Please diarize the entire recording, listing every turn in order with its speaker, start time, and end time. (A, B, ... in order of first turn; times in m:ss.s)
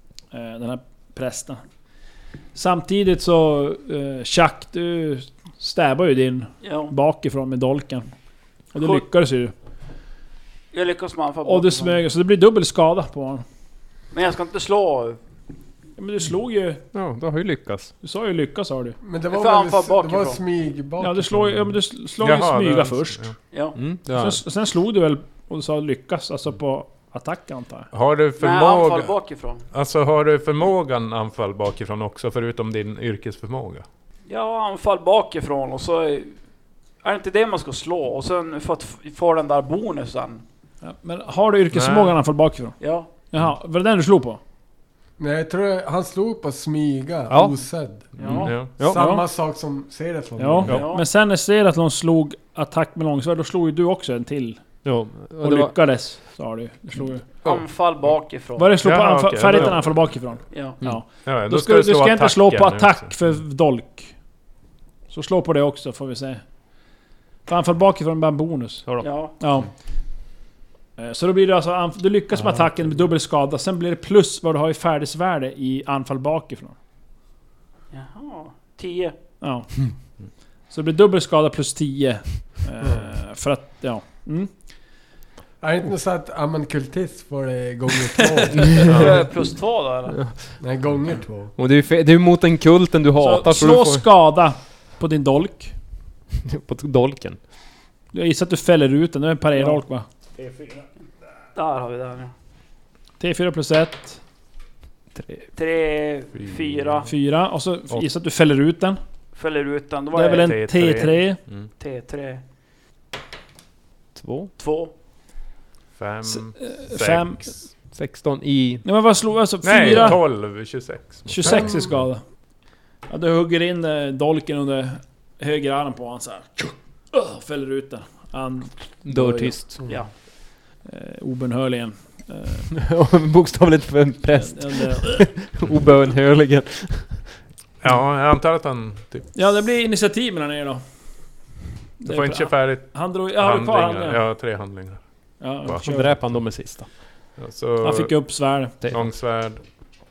0:00.3-0:01.6 A
0:02.5-0:08.1 A
0:06.6-0:06.9 B
0:08.7-0:09.5 A
0:10.7-0:12.0 B
0:11.4-0:13.4 A
0:14.1-0:15.2 B
0:16.0-0:16.8 A
0:16.9-0:17.9 C
0:18.0-0:19.0 A
0:19.0-0:21.5 D
0:19.3-0:20.4 B
0:21.0-0:23.3 A
0:22.2-0:23.4 E
0:23.5-0:23.8 B
0:23.7-0:24.4 C
0:24.1-0:27.9 A
0:27.9-0:29.1 E
0:28.4-0:29.7 B
0:29.7-0:33.8 E
0:34.3-0:36.4 B
0:37.0-0:40.4 B
0:40.8-0:44.4 A
0:41.7-0:42.2 E
0:42.8-0:43.1 B
0:45.2-0:48.2 D
0:47.3-0:47.6 C
0:48.2-0:48.5 B
0:48.2-0:48.7 E
0:48.2-0:49.0 C
0:48.7-0:50.7 D
0:48.8-0:49.2 A
0:50.4-0:54.8 A
0:50.7-0:51.0 B
0:54.8-0:55.8 C
0:55.4-0:57.2 A
0:57.4-0:58.8 B
0:58.6-1:04.1 A
0:58.8-1:00.3 E
1:00.5-1:00.8 B
1:01.1-1:03.3 E
1:05.1-1:06.4 A
1:07.4-1:09.7 A
1:08.8-1:09.1 C
1:09.0-1:09.4 B
1:11.0-1:16.7 A
1:17.9-1:19.2 B
1:19.4-1:19.8 A
1:20.7-1:24.5 A
1:22.8-1:23.1 D
1:25.6-1:29.0 D
1:28.6-1:29.2 C
1:28.9-1:30.2 B
1:30.1-1:30.6 C
1:30.6-1:31.5 D
1:31.6-1:34.0 C
1:33.2-1:35.7 A
1:36.4-1:37.4 C
1:38.1-1:40.0 A
1:41.5-1:42.3 B
1:43.2-1:44.2 A
1:45.2-1:45.4 C
1:45.5-1:47.1 B
1:46.3-1:47.1 E
1:47.0-1:49.0 A
1:49.3-1:50.7 B
1:50.1-1:51.4 A
1:50.3-1:51.7 E
1:51.8-1:52.4 B
1:54.1-1:54.5 C
1:54.6-1:54.9 B
1:56.0-1:57.7 E
1:56.2-1:57.5 A
1:57.9-1:58.8 C
1:58.8-2:00.2 A
1:59.6-2:02.0 E
2:01.3-2:02.2 A
2:01.4-2:02.0 D
2:03.1-2:09.5 A
2:09.0-2:09.8 C
2:09.2-2:10.0 D
2:10.8-2:12.7 A
2:12.7-2:17.4 C
2:14.3-2:15.3 A
2:17.8-2:19.3 E
2:19.3-2:20.8 A
2:22.0-2:24.2 A
2:22.0-2:25.0 E
2:25.4-2:26.2 A
2:25.6-2:26.4 E
2:25.8-2:26.9 C
2:27.4-2:28.3 E
2:27.8-2:28.8 A
2:28.8-2:29.1 C
2:28.9-2:29.6 E